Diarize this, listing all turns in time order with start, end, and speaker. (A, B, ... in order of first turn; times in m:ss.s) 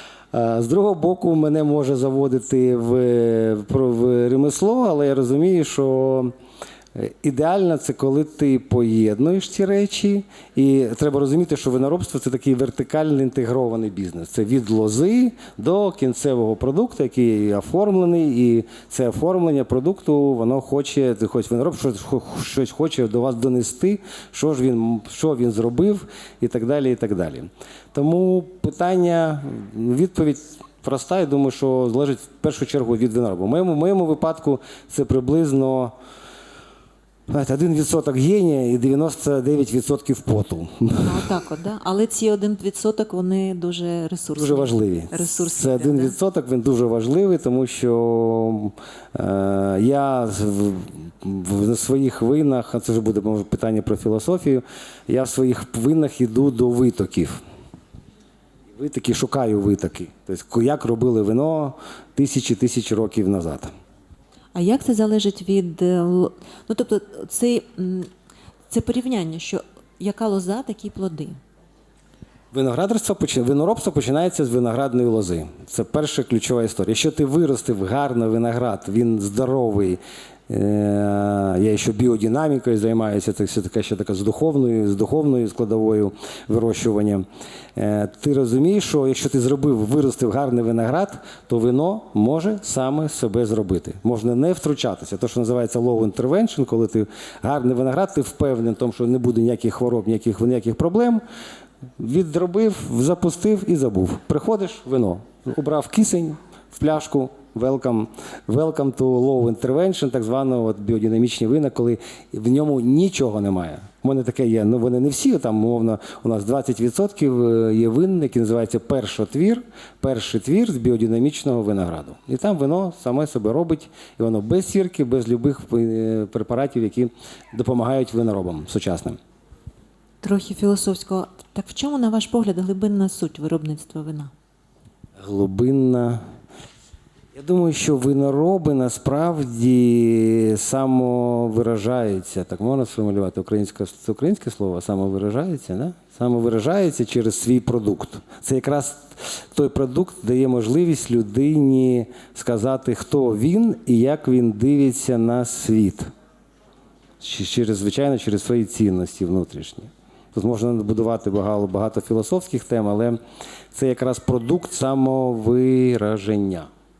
0:00.3-0:06.3 A
0:06.9-0:35.9 A
0:37.3-0:41.2 A
0:41.0-0:46.2 B
0:44.3-0:57.4 A
0:58.7-1:03.7 A
1:04.5-1:08.1 B
1:08.7-1:11.4 B
1:12.5-1:41.2 A
1:42.0-2:09.2 A
2:10.2-2:14.3 B
2:15.2-2:16.2 A
2:17.3-2:36.1 A
2:37.2-2:43.2 A
2:43.7-2:46.7 A